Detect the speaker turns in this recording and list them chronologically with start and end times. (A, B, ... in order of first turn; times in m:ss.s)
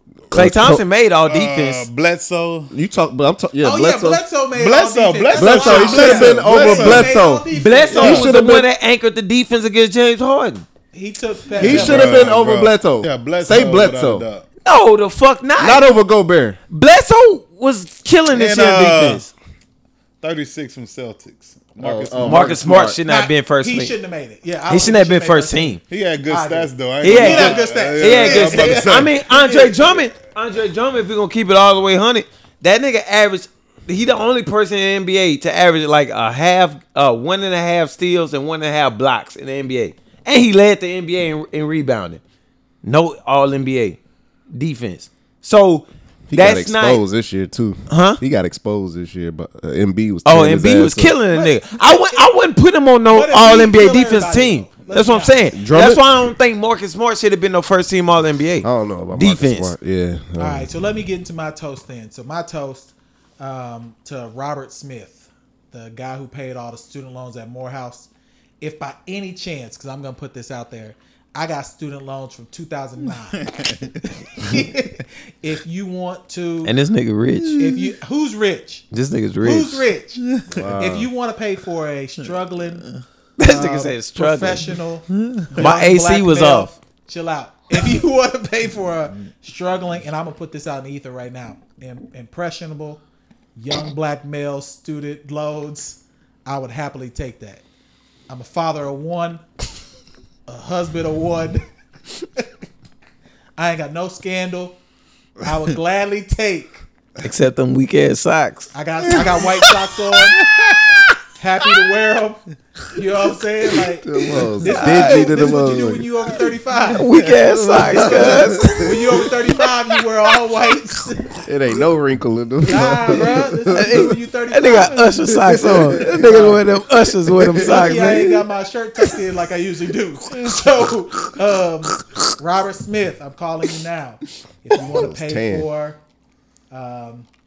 0:00.3-0:00.8 A
0:00.3-0:01.9 B
0:01.3-0:02.7 C
0:02.7-0:04.2 A
0:03.6-0:08.3 D
0:04.5-0:07.2 C
0:05.3-0:08.7 A
0:07.5-0:10.6 B
0:10.9-0:12.3 D
0:11.6-0:14.4 C
0:11.6-0:14.2 A
0:14.6-0:15.8 B
0:15.6-0:16.6 A
0:16.7-0:19.3 B
0:18.3-0:19.2 C
0:20.2-0:22.6 C
0:21.8-0:23.0 A
0:22.2-0:23.9 B
0:23.0-0:29.9 D
0:24.7-0:25.8 B
0:25.9-0:29.2 C
0:27.0-0:42.2 B
0:42.8-0:44.0 B
0:44.5-0:47.0 B
0:46.3-0:51.1 A
0:47.9-0:48.2 B
0:50.2-0:59.7 B
0:51.3-0:52.2 D
0:53.1-0:55.4 D
0:55.6-0:56.0 A
0:58.6-1:00.7 A
1:00.4-1:08.1 D
1:08.6-1:13.4 D
1:13.4-1:13.9 C
1:14.1-1:16.7 D
1:16.6-1:17.6 B
1:17.4-1:17.8 C
1:17.6-1:18.8 D
1:18.9-1:19.8 B
1:19.4-1:20.2 D
1:20.4-1:20.7 C
1:20.5-1:21.1 A
1:20.8-1:22.8 D
1:23.4-1:24.8 B
1:23.4-1:33.0 D
1:25.5-1:26.7 B
1:33.6-1:37.6 D
1:38.3-1:39.4 D
1:40.5-1:41.6 D
1:43.6-1:44.8 D
1:45.4-1:46.8 D
1:47.2-1:48.7 B
1:48.7-1:50.4 D
1:49.2-1:49.4 C
1:50.4-1:51.0 C
1:51.4-1:52.4 D
1:52.9-1:57.0 D
1:54.0-1:56.1 A
1:54.6-1:55.4 B
1:56.9-1:59.3 B
1:57.4-1:59.2 A
1:58.0-2:01.4 D
2:01.4-2:04.0 A
2:02.6-2:05.0 D
2:03.7-2:08.4 B
2:05.3-2:06.5 A
2:06.0-2:06.6 D
2:07.3-2:08.3 A
2:07.6-2:16.0 D
2:14.8-2:15.7 A
2:16.7-2:17.3 D